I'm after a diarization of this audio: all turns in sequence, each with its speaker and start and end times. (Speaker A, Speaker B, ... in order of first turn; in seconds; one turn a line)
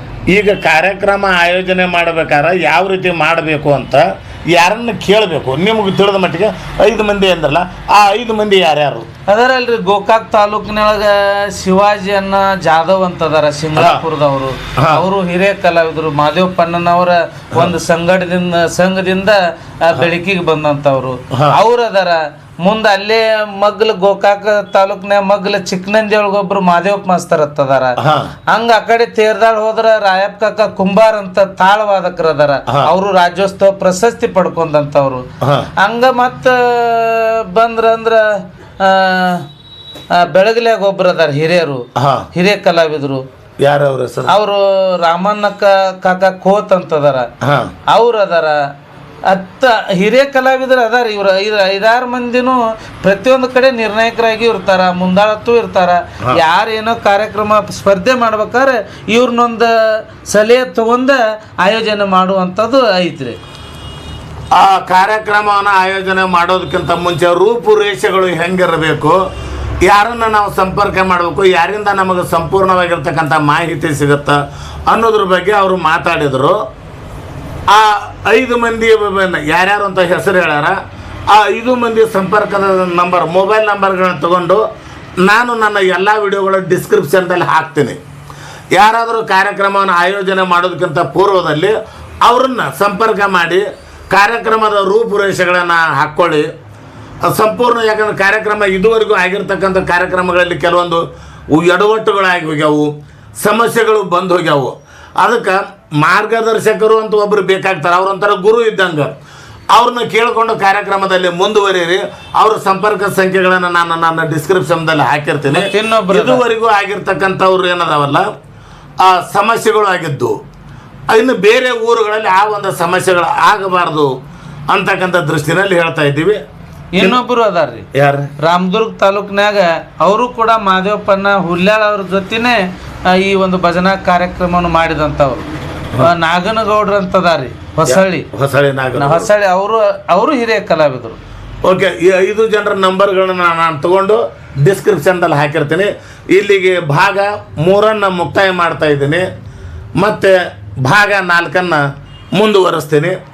Speaker A: 0.3-9.1
Speaker B: 9.3-27.9
Speaker A: 13.8-14.0
Speaker A: 14.8-15.0
Speaker A: 28.0-28.3
Speaker B: 28.5-35.2
Speaker A: 35.4-35.7
Speaker B: 35.8-39.5
Speaker B: 40.1-43.2
Speaker A: 42.0-42.3
Speaker A: 43.6-44.3
Speaker B: 44.3-47.3
Speaker A: 47.4-47.7
Speaker B: 47.9-48.7
Speaker B: 49.3-63.4
Speaker A: 64.5-69.2
Speaker A: 69.8-76.6
Speaker A: 77.7-80.8
Speaker A: 81.3-84.6
Speaker A: 85.2-88.0
Speaker A: 88.7-96.5
Speaker A: 97.2-109.1
Speaker A: 109.7-118.2
Speaker B: 115.5-116.4
Speaker A: 119.0-120.3
Speaker A: 121.1-124.1
Speaker A: 124.7-126.4
Speaker B: 126.9-127.9
Speaker A: 127.9-128.3
Speaker B: 128.4-138.3
Speaker A: 137.9-139.3
Speaker B: 138.9-141.2
Speaker A: 141.6-149.2
Speaker A: 150.0-153.2